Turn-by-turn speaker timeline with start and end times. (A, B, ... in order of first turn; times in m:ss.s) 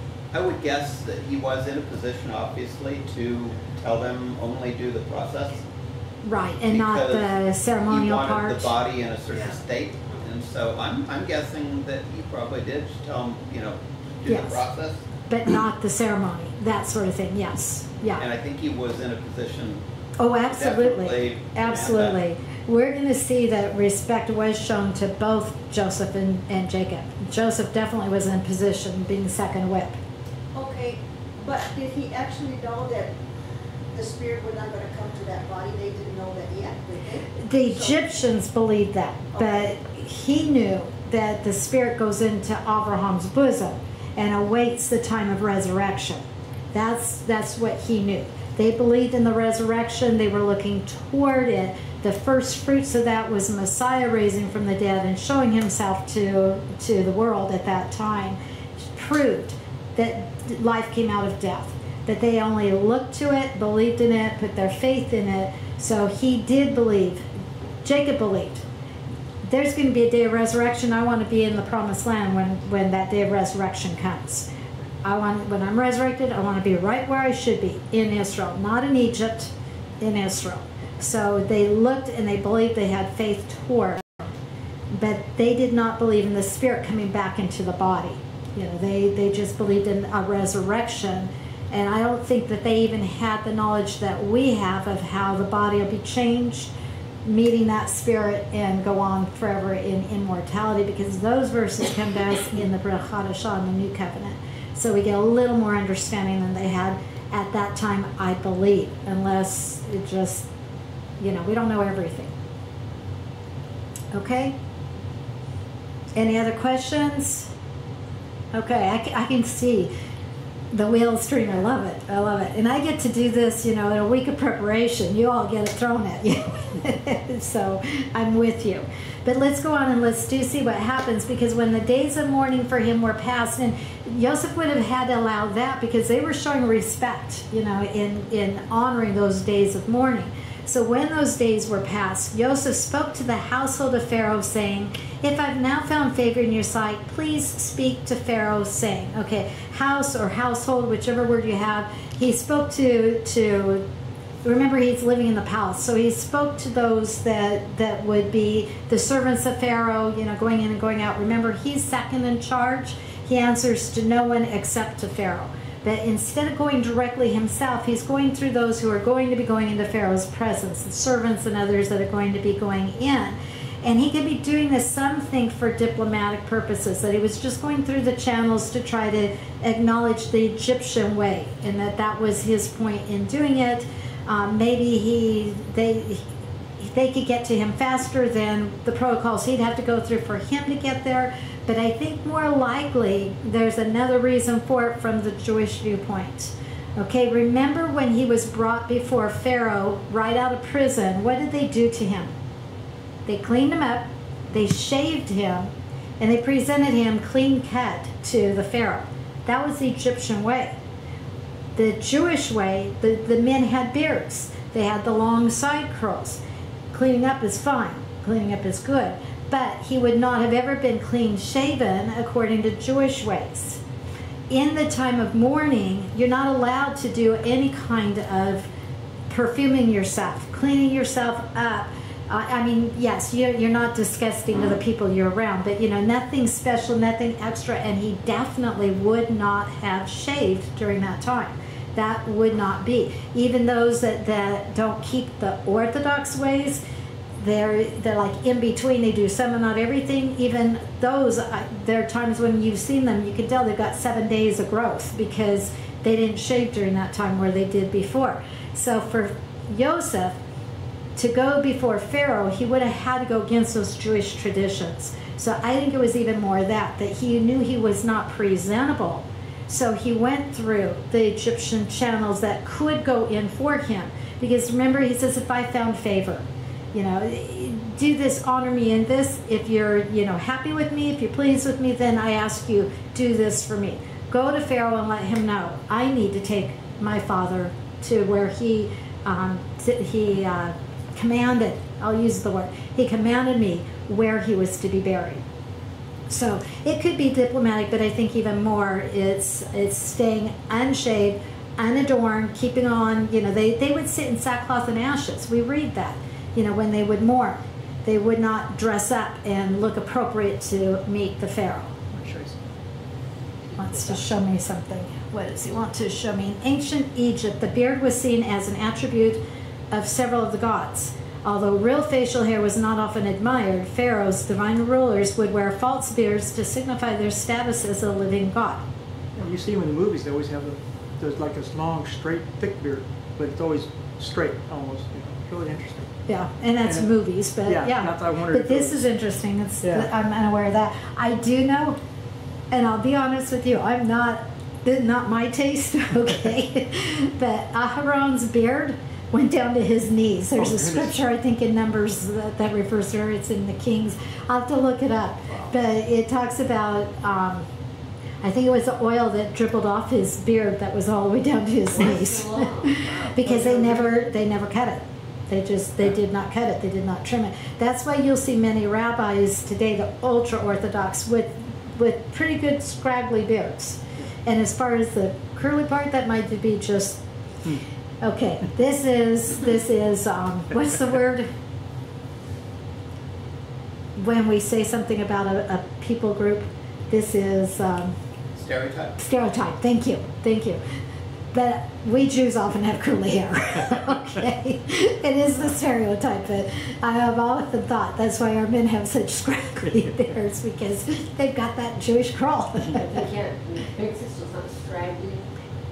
0:00.3-0:05.6 A
0:06.2-0:08.7 B
0:06.7-0:07.4 A
0:07.9-0:15.0 A
0:14.3-0:14.6 B
0:15.3-0:18.2 B
0:18.2-0:19.8 A
0:20.2-0:30.0 B
0:20.5-0:22.2 A
0:30.5-0:33.1 C
0:33.9-0:38.0 C
0:37.4-0:46.2 B
0:39.3-0:39.7 C
0:46.7-0:58.4 B
0:58.9-1:07.2 B
1:07.8-1:08.6 B
1:09.4-1:14.5 B
1:15.0-1:24.3 B
1:24.9-1:36.7 B
1:37.2-1:50.5 B
1:51.2-1:52.3 B
1:54.1-1:54.6 B
1:56.1-1:57.5 B
1:58.5-1:59.9 B
2:00.7-2:33.8 B
2:34.4-3:06.3 B
3:06.8-3:22.3 B
3:23.3-3:30.8 B
3:31.8-3:36.4 B
3:36.9-3:43.8 B
3:44.5-3:48.7 B
3:49.3-4:06.8 B
4:07.4-4:20.4 B
4:21.2-4:55.4 B
4:56.3-5:12.0 B
5:12.1-5:12.6 D
5:13.8-5:28.8 B
5:29.4-5:36.1 D
5:36.3-5:42.0 B
5:36.8-5:37.1 D
5:37.7-5:39.1 D
5:39.8-5:40.1 D
5:42.7-5:57.6 B
5:50.6-5:51.1 D
5:58.4-6:17.2 B
6:01.9-6:03.1 E
6:18.2-6:21.5 B
6:24.2-6:28.1 B
6:28.6-6:29.2 A
6:29.2-6:30.8 B
6:31.5-6:43.2 B
6:42.9-6:45.4 E